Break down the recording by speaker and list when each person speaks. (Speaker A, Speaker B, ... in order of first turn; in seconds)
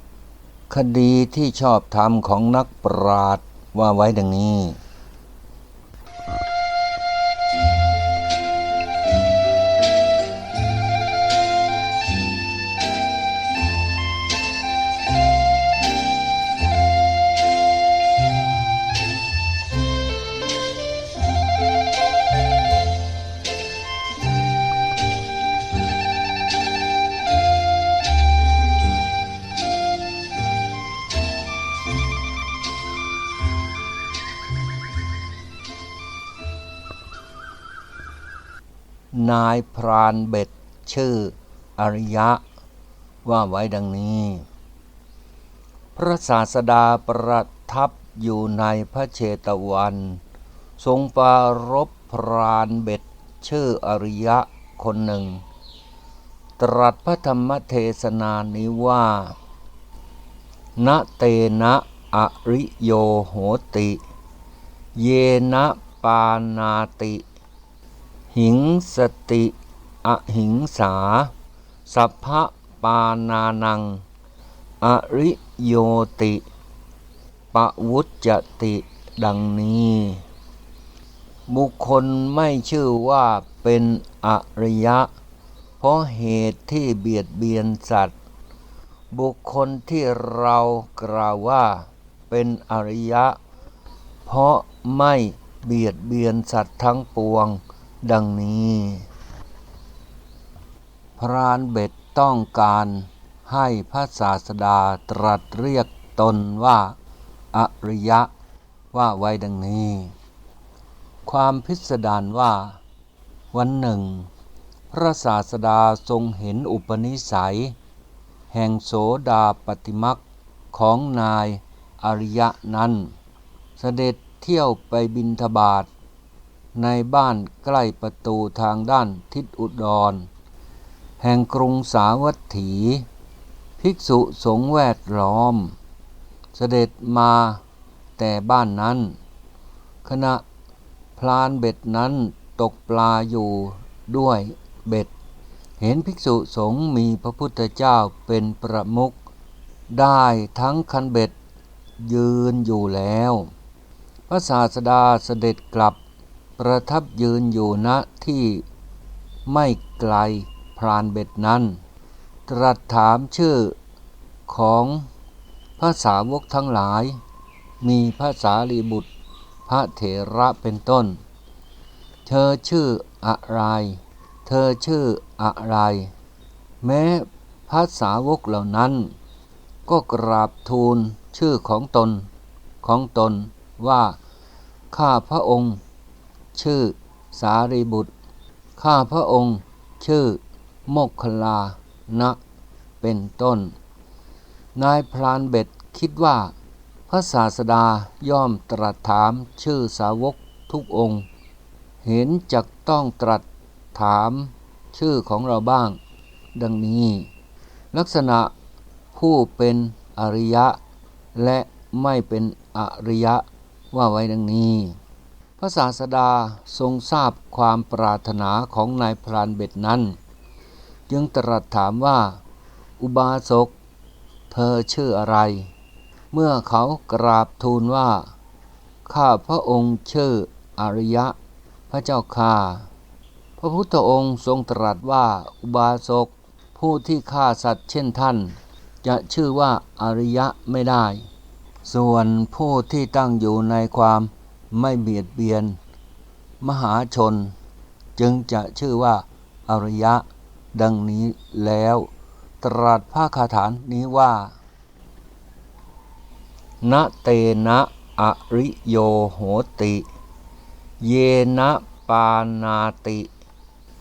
Speaker A: 0.7-4.8, 39.1-42.4, 43.2-44.5, 45.9-50.2, 50.8-55.4, 56.6-59.4, 60.8-64.0, 64.9-67.2, 68.3-71.3, 71.8-74.0, 74.8-76.4, 77.5-80.2, 81.5-85.1, 85.8-88.1, 89.1-93.4, 94.2-99.1, 101.2-107.0, 107.5-108.3, 108.9-110.1, 111.2-112.8, 113.5-114.3, 114.9-117.8, 118.5-123.1, 123.8-125.9, 126.7-130.3, 131.2-133.1, 133.8-135.7, 136.5-137.6, 138.2-139.2, 140.0-140.4, 141.2-145.1, 145.8-149.2, 149.9-151.3, 152.0-153.5, 154.3-156.0, 156.6-158.7, 159.4-161.8, 162.5-163.8, 164.5-165.1, 165.8-167.2, 167.8-169.1, 169.7-171.2, 172.2-176.1, 176.8-179.1, 179.8-182.3, 182.8-184.2, 184.9-185.8, 186.5-188.1, 188.8-192.4, 193.0-193.7, 194.7-196.5, 197.1-201.3, 202.0-206.0, 206.5-207.3, 207.9-208.5, 209.1-210.8, 211.3-215.0, 215.6-220.2, 221.1-222.4, 223.0-223.7, 224.5-225.7, 226.3-228.3, 229.0-231.3, 231.9-232.9, 233.6-241.3, 241.8-245.8, 246.6-247.5, 248.2-254.6, 256.8-260.1, 261.0-263.3